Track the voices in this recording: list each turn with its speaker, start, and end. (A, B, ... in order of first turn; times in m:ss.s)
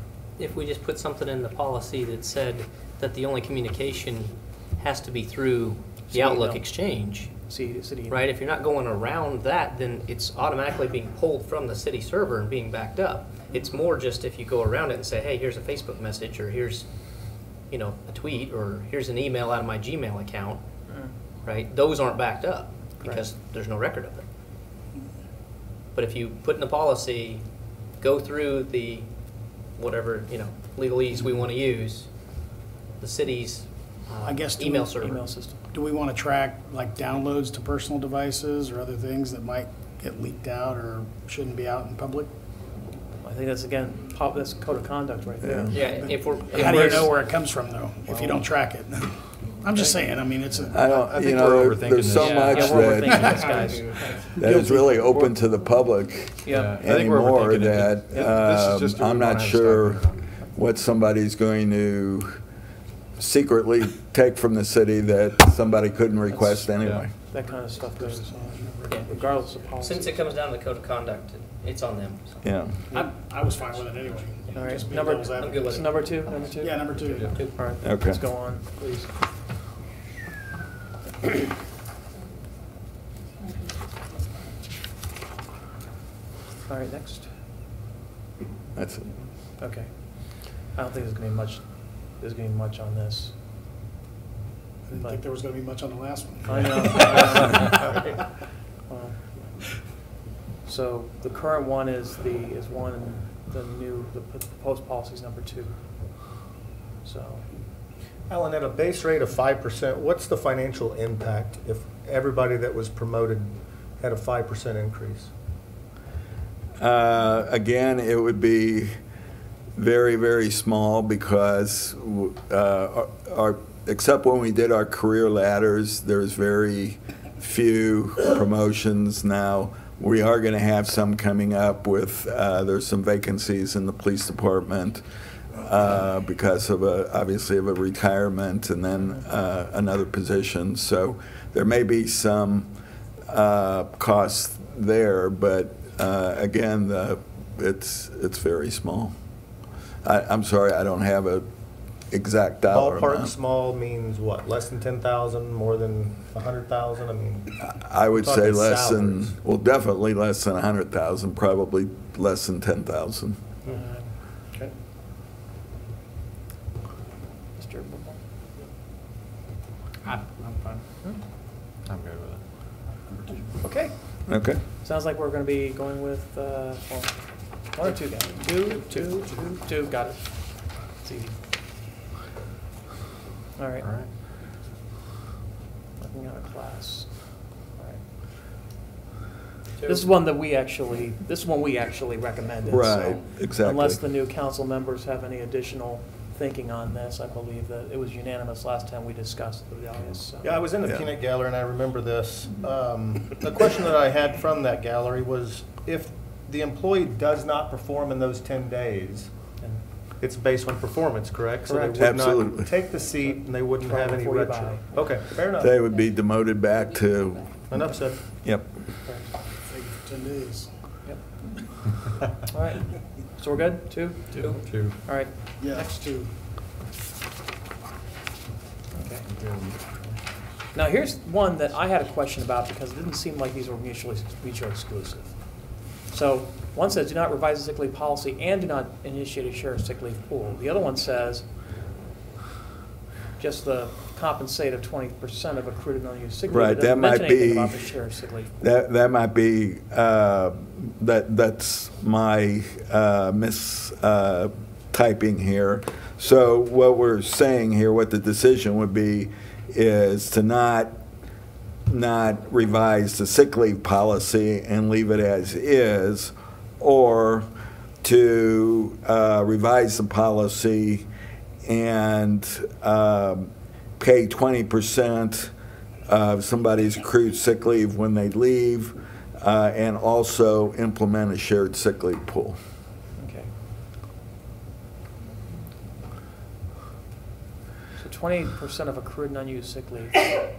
0:00.4-0:07.3 A
0:06.1-0:06.7 B
0:07.4-0:08.3 B
0:08.1-0:16.8 A
0:17.7-0:20.6 A
0:20.9-0:21.1 B
0:21.4-0:24.2 A
0:26.0-0:27.4 A
0:28.0-0:29.1 A
0:29.8-0:32.1 A
0:33.0-0:35.3 A
0:34.2-0:35.0 C
0:35.0-0:35.6 B
0:35.7-0:42.3 C
0:43.2-0:45.9 B
0:45.4-0:45.7 D
0:45.7-0:47.2 A
0:45.8-0:51.1 C
0:46.5-0:47.1 B
0:49.7-0:50.0 B
0:50.7-0:53.4 D
0:51.0-0:54.2 E
0:52.2-0:52.5 A
0:52.2-0:55.2 B
0:53.4-0:53.9 A
0:54.4-1:00.0 D
0:56.4-0:56.8 B
0:56.5-1:00.2 E
1:00.5-1:02.4 D
1:03.2-1:07.1 D
1:06.3-1:10.3 B
1:06.8-1:07.1 E
1:07.8-1:09.1 C
1:09.8-1:12.4 A
1:12.4-1:12.8 D
1:12.9-1:15.9 C
1:14.5-1:19.1 B
1:15.3-1:16.2 A
1:16.6-1:17.4 C
1:17.1-1:17.3 E
1:17.3-1:17.6 A
1:17.8-1:18.2 D
1:26.7-1:27.3 B
1:28.8-1:29.1 D
1:29.6-1:33.3 B
1:34.9-1:37.4 C
1:36.5-1:38.1 B
1:38.9-1:39.5 B
1:40.6-1:45.8 B
1:47.0-1:47.4 B
1:48.3-1:55.3 F
1:56.8-1:58.9 D
1:59.8-2:15.0 D
2:15.6-2:22.7 D
2:23.3-2:29.1 D
2:30.0-2:31.5 D
2:32.1-2:33.3 D
2:32.7-2:39.3 F
2:37.6-2:43.4 D
2:43.7-2:44.1 B
2:47.6-2:48.2 B
2:50.1-2:50.5 E
2:51.9-2:52.4 E
2:53.6-3:01.4 B
2:54.3-2:54.6 D
3:03.6-3:03.9 B
3:03.8-3:04.1 E
3:06.0-3:08.0 B
3:09.8-3:10.1 A
3:09.8-3:20.6 B
3:12.7-3:14.0 D
3:20.4-3:29.3 F
3:30.2-3:35.7 F
3:31.7-3:32.3 B
3:32.0-3:32.7 D
3:33.2-3:35.0 B
3:35.6-3:37.7 D
3:37.7-3:38.2 F
3:38.4-3:38.7 D
3:39.0-3:39.4 B
3:39.7-3:40.7 C
3:41.0-3:41.7 B
3:42.5-3:45.3 B
3:44.3-3:45.0 E
3:44.4-3:44.6 A
3:45.6-3:46.3 C
3:48.9-3:49.3 B
3:49.3-3:50.0 E
3:50.7-4:01.5 B
4:03.4-4:08.5 B
4:06.5-4:07.9 D
4:08.6-4:20.9 D
4:21.9-4:27.5 D
4:28.0-4:31.1 D
4:31.6-4:35.5 D
4:36.1-4:42.6 D
4:43.2-4:43.5 B
4:48.0-4:50.3 B